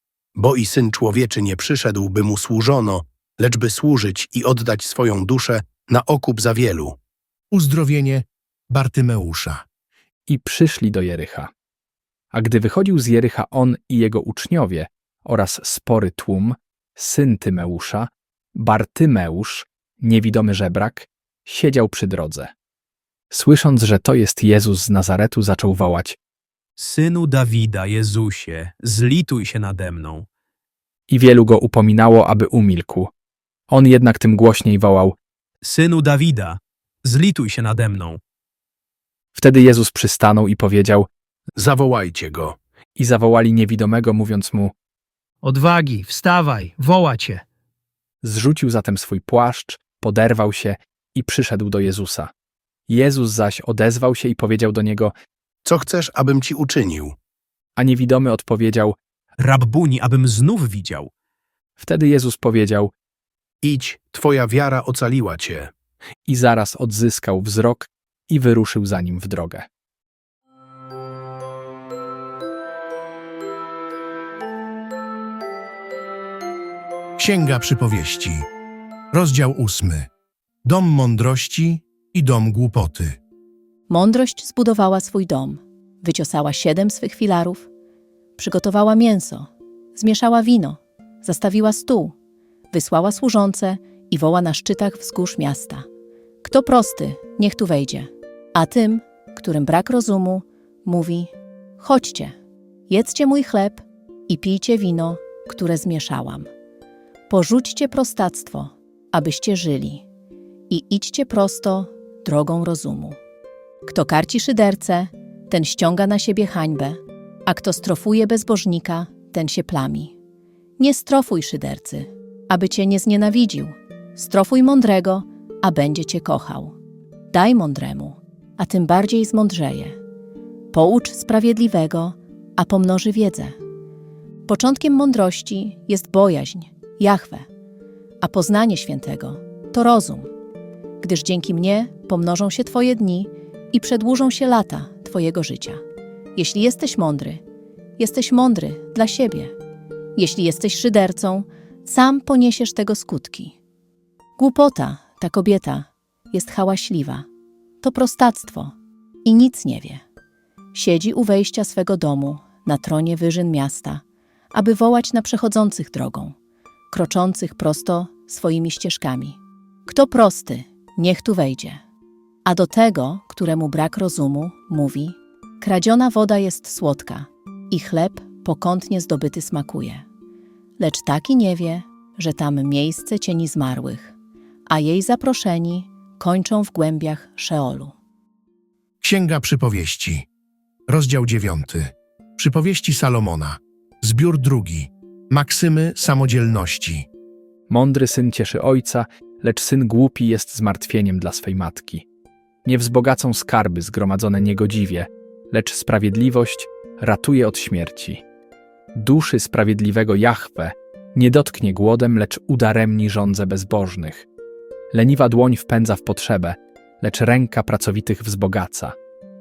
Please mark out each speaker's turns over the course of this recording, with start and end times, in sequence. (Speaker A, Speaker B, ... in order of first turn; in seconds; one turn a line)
Speaker A: 0.4-7.0
Speaker B: 7.5-9.7
Speaker C: 10.3-11.5
Speaker C: 12.3-22.5
Speaker C: 23.3-26.2
Speaker D: 26.8-30.3
Speaker C: 31.1-33.1
Speaker C: 33.7-35.2
Speaker D: 35.6-38.2
Speaker C: 39.4-41.1
Speaker A: 41.6-42.6
Speaker C: 43.0-44.7
Speaker E: 45.4-47.4
Speaker C: 48.2-52.3
Speaker C: 52.9-55.1
Speaker A: 55.6-57.1
Speaker C: 57.8-59.0
Speaker D: 59.4-61.1
Speaker C: 61.8-62.9
Speaker A: 63.6-65.7
Speaker C: 66.3-69.7
Speaker B: 77.2-78.5
Speaker B: 79.1-80.1
Speaker B: 80.7-83.2
Speaker F: 83.9-87.7
Speaker F: 88.4-92.2
Speaker F: 92.7-95.9
Speaker F: 96.4-102.3
Speaker F: 102.9-106.5
Speaker F: 107.3-110.0
Speaker F: 110.7-113.2
Speaker F: 113.9-120.1
Speaker F: 120.8-126.8
Speaker F: 127.3-130.0
Speaker F: 130.7-133.6
Speaker F: 134.5-137.5
Speaker F: 138.2-140.3
Speaker F: 141.0-145.8
Speaker F: 146.3-147.4
Speaker F: 148.0-149.5
Speaker F: 150.2-153.6
Speaker F: 154.4-157.3
Speaker F: 157.8-158.7
Speaker F: 159.2-160.0
Speaker F: 160.7-164.0
Speaker F: 164.5-166.3
Speaker F: 166.9-171.8
Speaker F: 172.4-180.1
Speaker F: 180.8-184.1
Speaker F: 184.7-187.9
Speaker B: 189.0-190.3
Speaker B: 190.9-197.1
Speaker C: 197.7-202.1
Speaker C: 202.7-208.2
Speaker C: 208.9-214.3
Speaker C: 214.9-219.0